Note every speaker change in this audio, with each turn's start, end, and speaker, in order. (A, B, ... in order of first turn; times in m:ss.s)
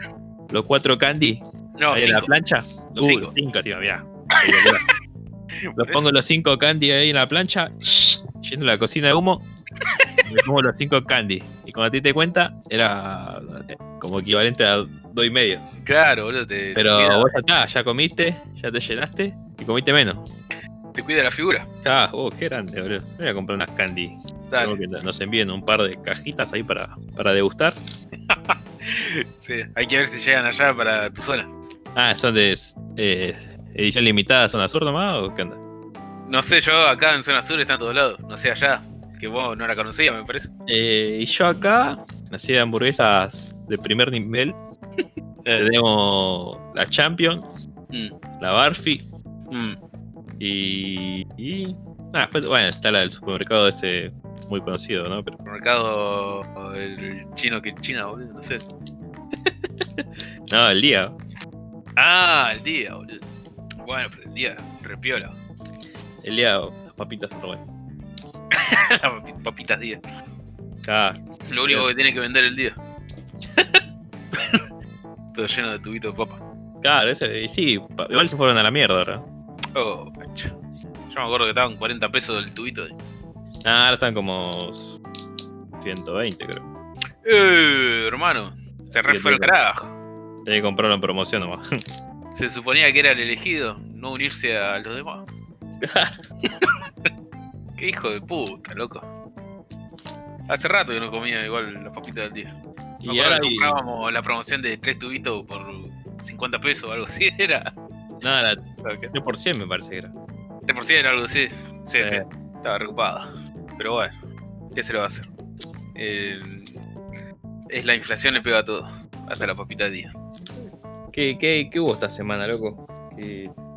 0:00.5-0:04.8 A
0:01.8-0:02.3 B
0:03.0-0:03.3 B
0:04.4-0:04.8 B
0:05.7-0:06.1 B
0:05.8-0:09.4 A
0:09.9-0:10.3 B
0:10.2-0:15.6 A
0:15.8-0:17.3 B
0:16.7-0:20.2 A
0:20.9-0:21.7 B
0:21.8-0:27.8 A
0:24.5-0:24.8 B
0:28.3-0:31.5 B
0:31.9-0:35.6 A
0:36.3-0:40.5 B
0:40.7-0:44.6 A
0:45.4-0:45.7 B
0:45.6-0:47.5 A
0:48.4-0:49.0 A
0:49.5-0:49.8 B
0:50.4-0:55.4 A
0:55.5-0:58.6 B
0:59.4-1:01.2 A
1:02.0-1:03.2 B
1:03.8-1:05.3 B
1:06.2-1:07.6 A
1:08.5-1:10.0 B
1:10.8-1:11.9 A
1:11.5-1:12.8 B
1:15.3-1:16.4 B
1:16.8-1:19.2 A
1:19.7-1:20.5 B
1:21.1-1:23.0 B
1:23.6-1:25.0 A
1:25.8-1:26.7 A
1:27.2-1:30.0 B
1:28.9-1:29.5 A
1:30.4-1:31.6 A
1:32.4-1:35.2 B
1:35.8-1:36.1 A
1:37.8-1:39.1 B
1:40.5-1:42.5 B
1:43.0-1:43.8 A
1:43.0-1:47.7 B
1:48.2-1:50.1 A
1:48.8-1:49.1 B
1:50.7-1:54.1 B
1:52.0-1:52.2 A
1:54.7-1:55.3 B
1:55.9-1:56.7 B
1:57.7-2:00.1 B
2:01.1-2:03.5 A